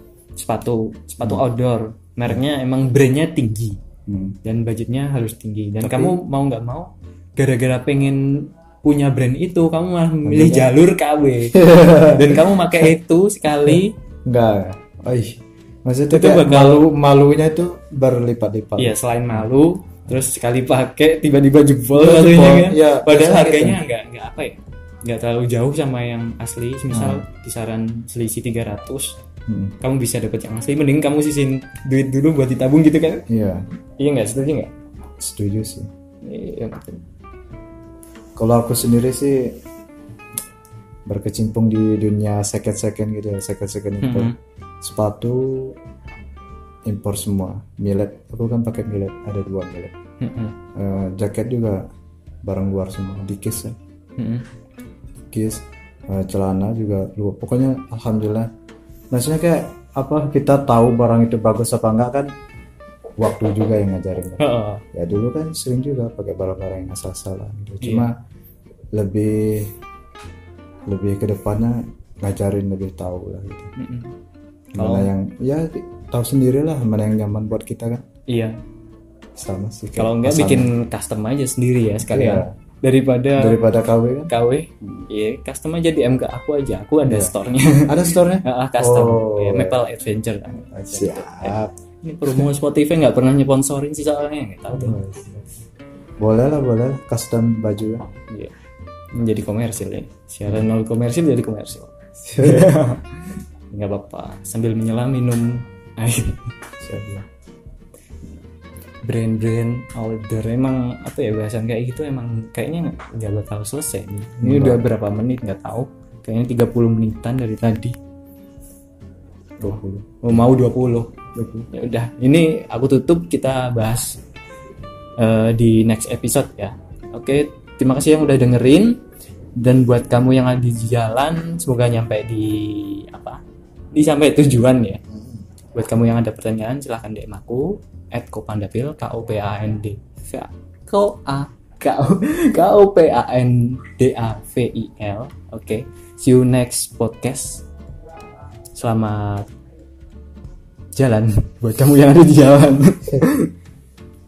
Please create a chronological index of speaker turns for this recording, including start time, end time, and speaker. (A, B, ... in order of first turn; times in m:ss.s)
0:00.4-0:03.8 A
0:04.1-0:04.4 B
0:04.4-0:14.0 A
0:05.8-0:06.2 B
0:10.2-0:10.7 B
0:11.5-0:12.9 B
0:13.6-0:19.4 B
0:16.1-0:16.9 A
0:18.8-0:29.2 A
0:21.9-0:23.8 B
0:26.9-0:27.2 B
0:29.5-0:29.8 B
0:29.8-0:33.2 A
0:33.3-0:33.6 B
0:34.0-0:34.7 A
0:35.2-0:35.9 B
0:36.2-0:37.0 A
0:38.4-0:39.6 B
0:41.0-0:45.8 B
0:44.0-0:44.3 A
0:46.8-0:49.9 B
0:50.2-0:50.6 A
0:50.7-0:51.8 B
0:52.4-0:53.8 B
0:54.2-0:54.4 A
0:55.3-0:58.5 B
0:59.1-1:02.3 B
1:03.2-1:08.1 B
1:04.4-1:04.8 A
1:07.8-1:08.1 A
1:08.9-1:09.7 B
1:10.9-1:13.7 B
1:13.8-1:14.1 A
1:14.7-1:18.0 B
1:14.8-1:15.1 A
1:18.3-1:18.6 A
1:19.4-1:20.7 B
1:20.0-1:23.6 A
1:22.1-1:22.5 B
1:23.4-1:25.0 B
1:24.3-1:35.0 A
1:27.0-1:27.3 B
1:27.8-1:29.8 B
1:30.5-1:31.7 B
1:34.7-1:35.4 B
1:36.2-1:38.0 B
1:38.3-1:38.5 A
1:39.1-1:46.5 A
1:42.2-1:42.9 B
1:46.8-1:47.2 B
1:49.0-1:58.0 A
1:54.4-1:54.9 B
1:59.6-2:00.5 B
1:59.6-2:04.2 A
2:01.3-2:01.7 B
2:05.2-2:09.0 A
2:09.5-2:13.4 A
2:13.9-2:15.0 A
2:15.7-2:27.6 A
2:28.8-2:29.5 A
2:30.9-2:33.5 A